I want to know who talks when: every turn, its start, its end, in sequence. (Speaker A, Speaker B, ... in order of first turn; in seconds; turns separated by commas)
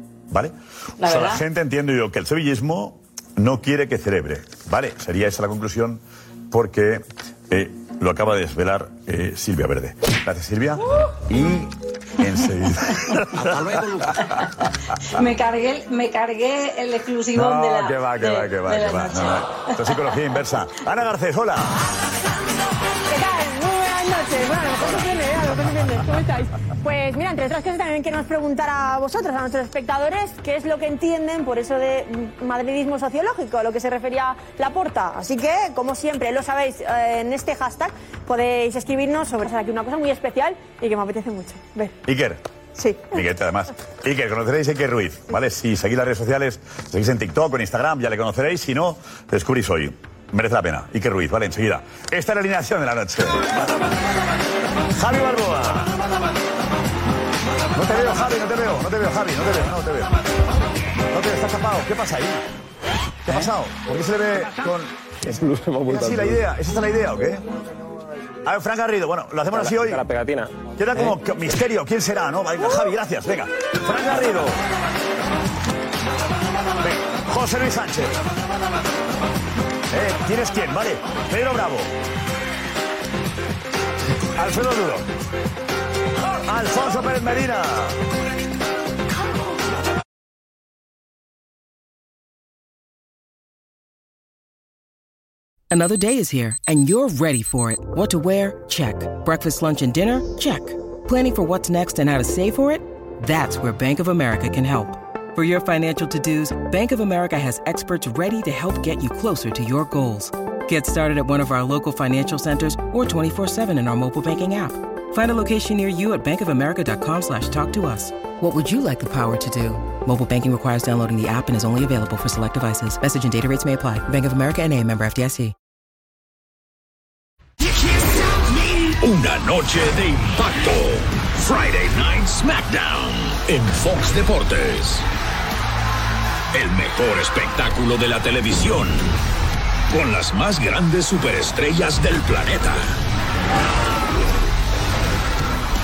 Speaker A: 0.3-14.2, Speaker B: 1.0-1.4, Speaker B: 15.1-19.7, Speaker A: 17.3-21.8, Speaker C: 23.1-42.0, Speaker A: 42.1-42.4, Speaker C: 42.8-43.2, Speaker A: 43.1-53.5, Speaker A: 54.9-55.9, Speaker A: 57.8-60.1, Speaker A: 61.1-62.4, Speaker A: 63.2-65.0, Speaker D: 65.2-66.4, Speaker A: 65.9-67.4, Speaker A: 68.5-70.0, Speaker D: 69.5-71.1, Speaker A: 70.8-74.6, Speaker A: 76.8-78.2, Speaker A: 79.9-82.0, Speaker A: 84.4-85.1, Speaker A: 86.2-88.0, Speaker E: 95.7-125.5, Speaker F: 129.0-135.1, Speaker F: 136.5-139.2, Speaker F: 139.9-143.0